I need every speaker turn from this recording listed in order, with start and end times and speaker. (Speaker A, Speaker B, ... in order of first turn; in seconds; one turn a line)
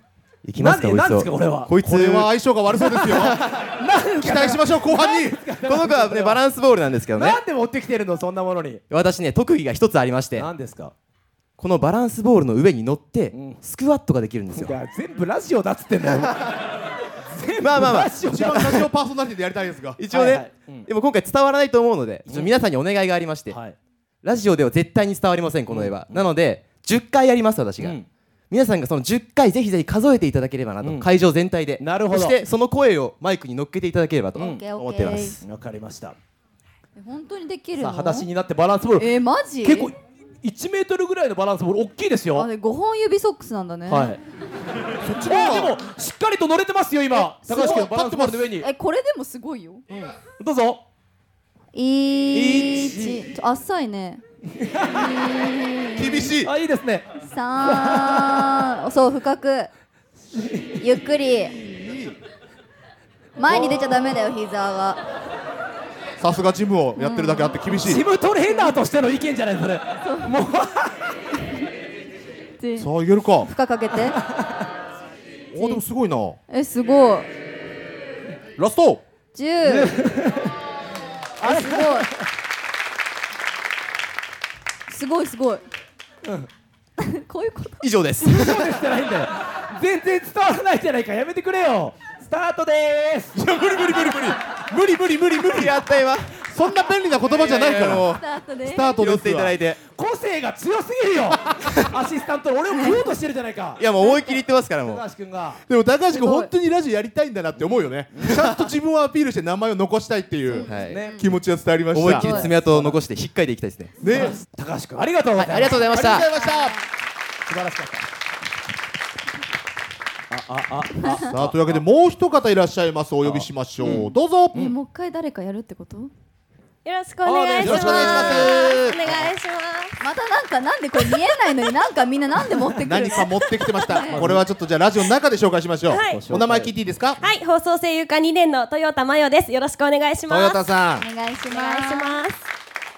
Speaker A: 0.4-2.3
Speaker B: 0.6-1.7
Speaker C: 1.8-3.4
Speaker B: 2.8-6.4
Speaker C: 4.2-5.4
Speaker A: 5.6-7.4
Speaker B: 7.2-8.8
Speaker A: 8.9-10.5
Speaker B: 10.3-10.9
Speaker A: 11.6-14.7
Speaker B: 13.3-13.6
Speaker B: 14.5-16.6
Speaker B: 17.3-18.9
Speaker A: 17.6-18.1
Speaker C: 18.2-20.0
Speaker A: 20.0-23.6
Speaker B: 20.1-20.9
Speaker B: 22.3-22.5
Speaker B: 23.5-23.8
Speaker A: 24.2-28.0
Speaker B: 25.7-26.3
Speaker B: 27.8-28.1
Speaker A: 28.5-35.4
Speaker B: 30.8-31.1
Speaker B: 31.8-32.4
Speaker D: 34.4-35.4
Speaker B: 35.4-36.1
Speaker D: 37.0-38.3
Speaker B: 37.8-42.5
Speaker D: 39.0-39.9
Speaker D: 42.3-44.1
Speaker B: 43.9-44.2
Speaker C: 45.0-45.8
Speaker B: 45.2-48.7
Speaker D: 47.2-47.8
Speaker C: 47.5-48.5
Speaker D: 48.6-49.8
Speaker B: 49.9-50.8
Speaker D: 51.7-54.2
Speaker B: 52.3-53.2
Speaker B: 54.5-55.4
Speaker D: 54.9-56.3
Speaker C: 56.0-56.5
Speaker B: 56.4-57.1
Speaker D: 57.2-59.7
Speaker B: 57.6-58.5
Speaker B: 60.4-60.8
Speaker D: 60.8-61.6
Speaker C: 61.7-62.1
Speaker D: 63.4-65.0
Speaker B: 63.5-63.9
Speaker C: 66.2-68.0
Speaker D: 67.0-67.6
Speaker B: 67.7-71.1
Speaker D: 68.5-68.8
Speaker D: 70.0-70.3
Speaker D: 72.6-72.9
Speaker C: 72.8-73.5
Speaker D: 73.4-74.2
Speaker C: 75.5-76.4
Speaker D: 75.5-75.8
Speaker D: 76.5-77.3
Speaker C: 78.6-79.0
Speaker D: 79.3-79.9
Speaker B: 79.6-80.5
Speaker B: 81.4-82.2
Speaker D: 81.4-82.1
Speaker D: 84.9-85.6
Speaker D: 87.0-87.8
Speaker A: 87.8-88.8
Speaker B: 88.2-93.3
Speaker C: 93.3-95.9
Speaker A: 95.4-96.4
Speaker C: 96.4-98.1
Speaker B: 97.3-97.8
Speaker A: 97.4-98.2
Speaker D: 98.1-99.0
Speaker C: 98.6-99.6
Speaker A: 99.0-99.8
Speaker B: 99.8-103.8
Speaker D: 102.7-103.1
Speaker A: 103.8-105.0
Speaker B: 104.8-105.6
Speaker C: 105.7-112.5
Speaker D: 106.1-106.5
Speaker B: 108.1-108.4
Speaker A: 108.2-108.7
Speaker D: 110.5-111.2
Speaker A: 110.6-111.0
Speaker B: 110.8-111.2
Speaker A: 111.9-114.0
Speaker B: 112.0-113.0
Speaker D: 112.2-112.5
Speaker C: 114.0-114.4
Speaker B: 114.1-116.2
Speaker A: 115.3-116.3
Speaker C: 115.7-116.8
Speaker D: 116.3-116.8
Speaker B: 117.5-118.0
Speaker B: 120.3-121.8
Speaker D: 121.0-121.3
Speaker C: 121.2-124.6
Speaker B: 123.2-124.7
Speaker D: 124.5-126.1
Speaker E: 126.8-129.9
Speaker B: 127.2-128.5
Speaker C: 127.6-129.2
Speaker D: 130.0-133.3
Speaker C: 132.8-137.2
Speaker E: 133.6-133.9
Speaker D: 133.9-134.2
Speaker B: 134.0-134.4
Speaker E: 135.9-136.4
Speaker B: 136.1-136.7
Speaker E: 137.2-140.6
Speaker C: 140.3-141.1
Speaker D: 141.0-142.2
Speaker E: 141.5-142.4